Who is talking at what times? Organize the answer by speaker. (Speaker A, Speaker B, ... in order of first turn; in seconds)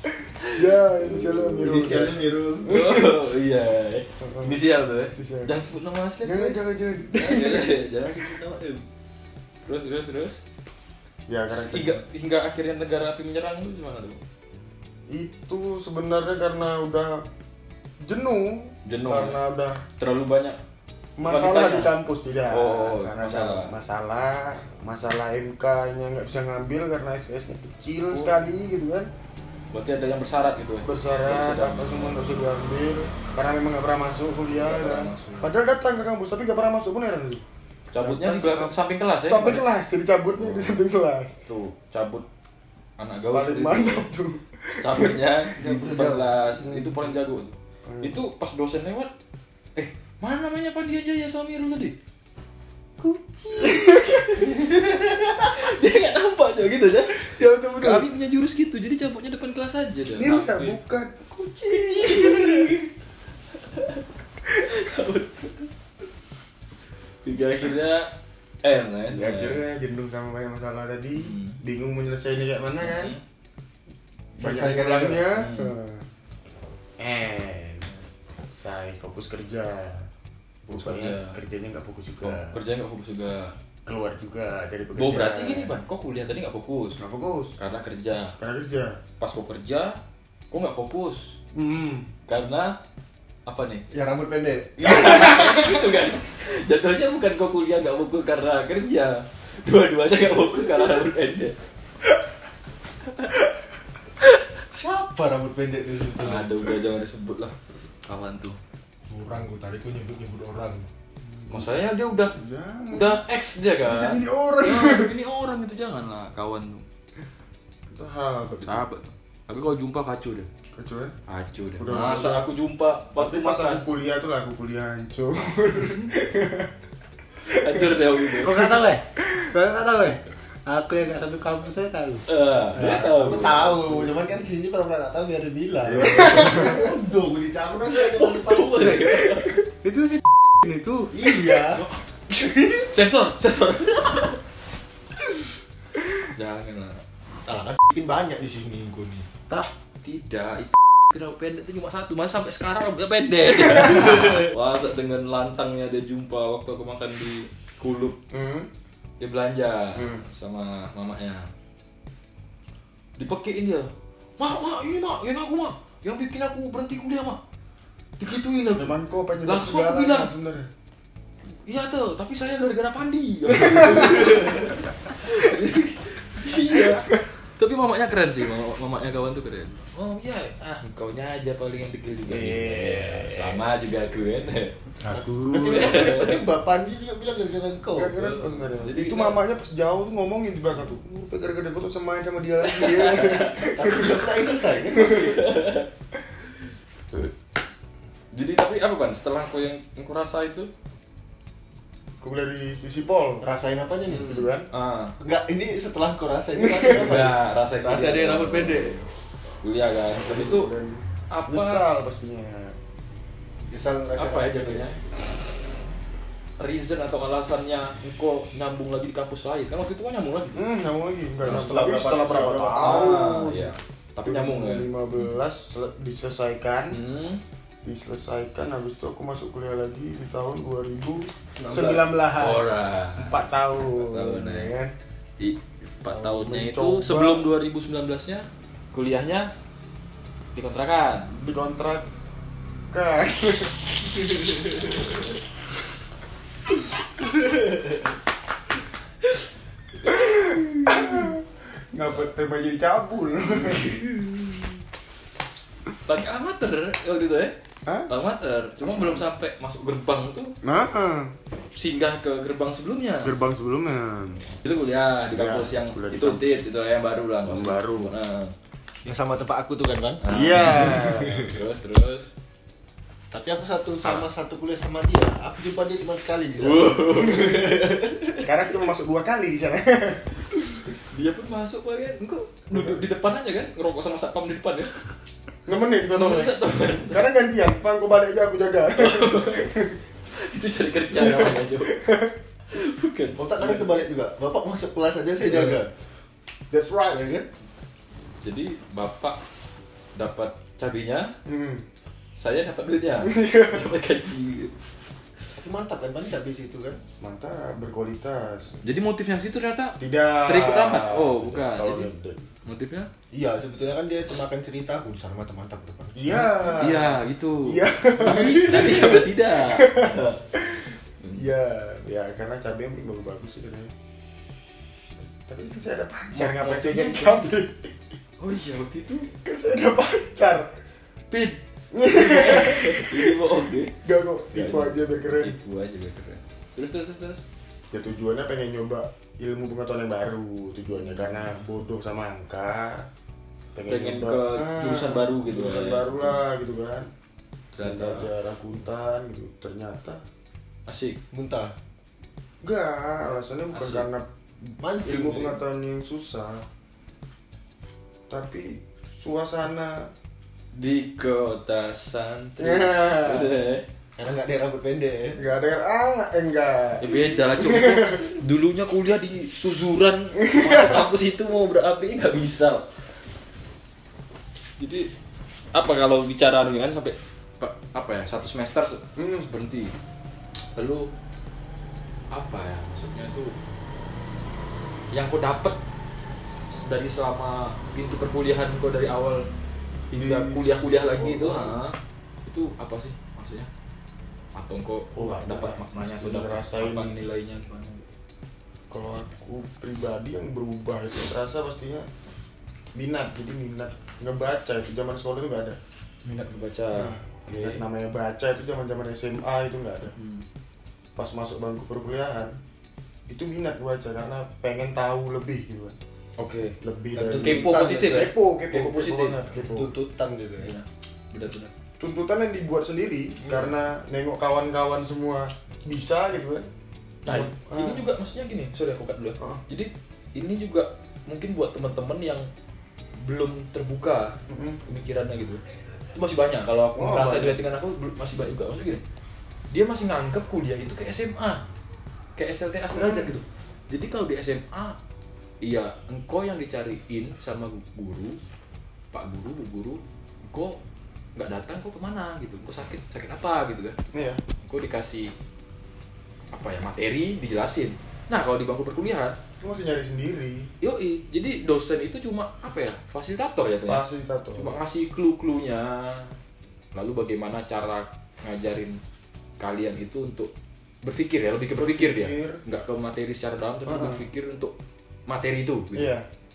Speaker A: 0.5-3.0, 4.2-4.6, 5.2-5.5, 6.2-7.7, 11.3-12.0, 15.1-17.2, 18.0-19.9, 21.2-29.1, 30.9-37.4, 38.0-41.4, 43.3-45.5, 46.6-47.1, 47.9-48.2, 53.5-54.3, 57.2-58.1, 60.1-62.8, 69.1-73.2, 74.4-76.1, 77.0-77.9, 78.4-80.1, 80.7-82.6, 83.9-85.7, 87.0-87.6, 88.3-89.0, 91.5-92.1, 111.2-111.8, 112.3-113.2, 113.8-115.1, 117.9-118.8, 120.7-121.1, 121.8-122.5, 123.2-126.7, 127.5-128.7, 135.9-137.0, 158.3-158.7, 160.0-160.2, 168.8-170.7, 173.7-174.3, 182.3-183.9, 187.9-194.4, 195.0-195.3, 202.2-203.5, 204.1-204.7, 206.6-207.2, 210.1-212.8, 220.6-223.7, 224.2-227.0, 227.8-234.9, 236.1-237.5, 241.3-242.1, 242.9-245.3, 250.1-254.0, 260.6-261.4, 263.2-264.5, 265.3-266.6, 267.5-268.1, 270.3-271.6, 278.4-280.6, 282.7-283.0, 285.7-290.0, 291.1-292.3, 295.4-295.8, 296.7-297.4, 301.5-301.9, 303.2-303.9, 307.2-308.8, 310.0-312.4, 316.1-323.9, 325.5-328.0, 329.4-330.7, 331.9-333.3, 334.0-335.6, 337.9-343.1, 343.8-347.1, 347.8-350.2, 352.6-356.7, 358.3-360.1, 362.6-363.5, 365.4-368.3, 370.5-371.1, 379.2-379.4, 390.1-391.8, 395.1-397.1, 398.9-402.1, 402.9-405.8, 407.0-410.1, 411.2-412.6, 413.3-416.0, 416.8-419.9, 422.0-426.7, 427.3-428.0, 434.5-434.8, 436.9-437.6, 442.9-443.3, 454.1-454.4, 459.6-460.7, 463.9-464.8, 471.8-472.6, 473.9-474.2, 475.9-476.2
Speaker B: 0.5-1.4, 2.7-6.6, 7.1-8.3, 9.7-10.4, 11.5-14.2, 18.9-19.4, 20.0-20.6, 21.2-21.9, 22.5-23.7, 28.1-28.4, 29.7-32.4, 34.5-35.6, 37.9-39.6, 40.4-40.8, 41.4-42.3, 43.0-44.1, 44.8-49.1, 49.8-52.0, 53.1-54.5, 55.5-60.8, 61.7-62.9, 63.7-64.0, 64.6-65.7, 67.2-68.1, 68.6-69.6, 71.2-71.6, 72.8-73.2, 75.4-75.7, 80.7-81.4, 82.2-83.5, 85.0-87.0, 87.6-88.3, 89.2-90.0, 90.5-91.4, 92.3-92.8, 93.5-93.9, 94.8-101.5, 106.2-108.6, 111.5-112.3, 112.9-116.9, 118.7-120.5, 121.3-123.8, 125.8-126.1, 127.4-128.7, 132.3-134.1, 137.9-139.6, 142.8-144.4, 146.3-147.0, 150.0-158.2, 159.2-161.5, 163.2-167.4, 168.2-170.3, 171.6-184.8, 185.6-186.4, 188.1-189.4, 192.6-193.7, 195.0-195.9, 198.3-200.7, 204.3-205.2, 206.9-209.0, 209.6-210.7, 211.3-211.8, 214.2-215.0, 216.6-220.7, 221.5-221.7, 222.6-225.3, 226.9-227.4, 232.4-233.4, 234.0-234.7, 235.4-239.5, 240.6-241.3, 250.1-251.2, 254.1-254.6, 256.1-257.6, 258.1-260.5, 261.8-263.3, 264.6-268.5, 270.2-272.3, 274.0-274.3, 276.6-277.8, 280.8-285.0, 286.1-287.3, 289.0-289.7, 290.3-292.1, 292.7-293.9, 298.4-299.4, 300.2-301.3, 302.4-304.7, 308.8-312.1, 312.7-313.1, 316.3-317.8, 318.4-320.4, 326.3-327.5, 328.4-329.3, 331.3-333.9, 334.5-337.4, 340.9-341.4, 343.9-346.4, 347.7-348.3, 350.9-351.2, 353.7-354.1, 360.8-363.9, 367.0-372.9, 374.8-375.1, 375.7-379.9, 380.8-381.1, 382.3-383.6, 385.1-385.8, 386.7-389.4, 390.1-391.9, 392.5-393.7, 394.6-398.1, 406.2-407.8, 410.1-410.5, 416.4-416.8, 417.4-419.8, 420.6-421.7, 427.3-432.5, 433.2-435.6, 436.1-439.0, 439.7-441.6, 442.4-445.0, 445.6-448.4, 449.1-450.8, 451.4-454.0, 454.6-455.3, 456.5-459.4, 460.8-464.1, 464.6-466.4, 466.9-469.0, 469.6-470.5, 471.0-474.7, 475.3-476.1
Speaker C: 1.5-3.0, 7.2-8.8, 45.6-46.3, 54.5-55.4, 74.4-75.2, 93.9-95.9, 104.7-106.5, 109.1-110.9, 132.8-139.5, 141.1-141.8, 147.4-149.3, 185.1-188.2, 193.7-195.4, 203.4-204.4, 205.2-209.1, 213.7-214.8, 221.4-223.2, 231.5-232.2, 269.1-271.6, 273.3-278.4, 293.4-295.9, 305.5-307.0, 313.3-316.7, 318.2-319.1, 351.3-351.8, 354.8-355.6, 364.2-365.4, 417.1-418.2, 419.7-420.8
Speaker D: 128.4-132.2, 132.8-133.1, 139.8-141.7, 185.0-185.9